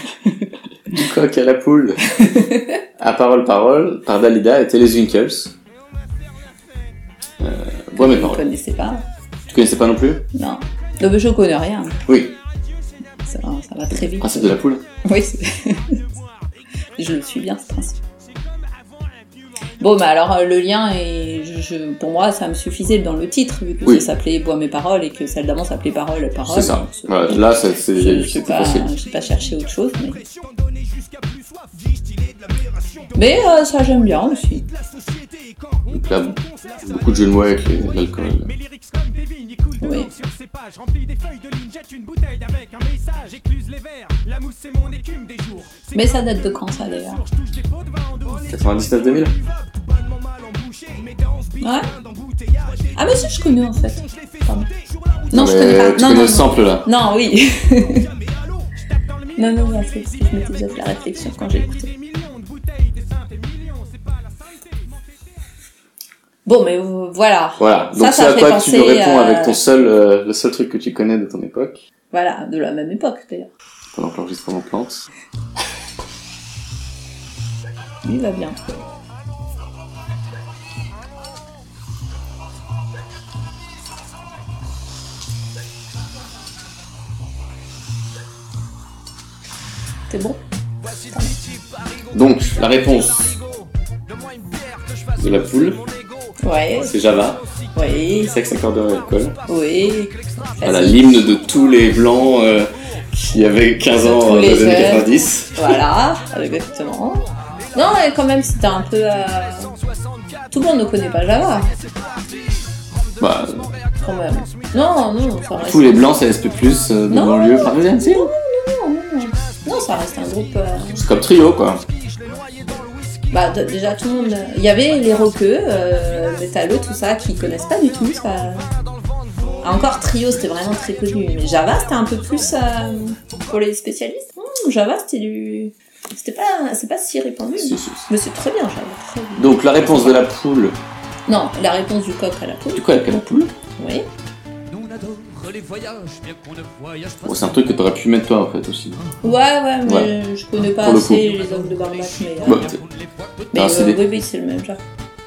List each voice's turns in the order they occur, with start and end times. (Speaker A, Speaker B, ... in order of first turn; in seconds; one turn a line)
Speaker A: 0.9-2.1
Speaker B: 2.2-2.8
Speaker A: 3.0-5.5
Speaker A: 7.4-8.4
Speaker B: 8.0-9.0
Speaker A: 9.5-10.2
Speaker B: 10.3-12.0
Speaker A: 12.1-12.3
Speaker B: 13.2-14.5
Speaker A: 14.0-14.8
Speaker B: 15.0-16.0
Speaker B: 17.0-18.0
Speaker B: 19.8-30.2
Speaker A: 26.4-28.9
Speaker B: 33.1-34.7
Speaker A: 35.9-38.5
Speaker B: 39.8-40.1
Speaker C: 43.0-43.5
Speaker C: 45.1-45.6
Speaker B: 45.9-47.2
Speaker A: 48.4-49.4
Speaker C: 50.5-51.2
Speaker B: 51.6-51.9
Speaker B: 53.0-54.7
Speaker B: 55.3-58.1
Speaker A: 55.3-56.9
Speaker B: 59.4-61.9
Speaker B: 66.5-69.6
Speaker A: 67.6-71.8
Speaker B: 72.1-73.5
Speaker A: 73.9-75.1
Speaker B: 78.0-78.6
Speaker B: 90.1-90.4
Speaker A: 92.1-93.3
Speaker C: 94.1-96.3
Speaker A: 95.2-95.8
Speaker B: 96.4-97.0
Speaker A: 96.8-97.4
Speaker B: 97.8-98.3
Speaker A: 98.2-99.4
Speaker B: 99.5-101.2
Speaker A: 100.6-105.8
Speaker B: 104.0-109.7
Speaker B: 110.5-111.7
Speaker C: 111.9-112.6
Speaker A: 113.2-113.7
Speaker B: 114.0-116.2
Speaker A: 115.6-118.3
Speaker B: 117.1-121.0
Speaker A: 121.0-121.8
Speaker C: 122.1-123.1
Speaker B: 123.3-128.7
Speaker B: 129.6-140.2
Speaker A: 137.6-138.1
Speaker A: 139.4-140.8
Speaker B: 141.3-142.9
Speaker A: 142.8-143.5
Speaker B: 143.8-144.1
Speaker C: 144.7-148.0
Speaker A: 147.2-149.0
Speaker B: 149.2-152.7
Speaker A: 150.8-151.2
Speaker C: 150.9-153.5
Speaker A: 152.4-152.8
Speaker A: 153.5-154.0
Speaker B: 153.5-154.8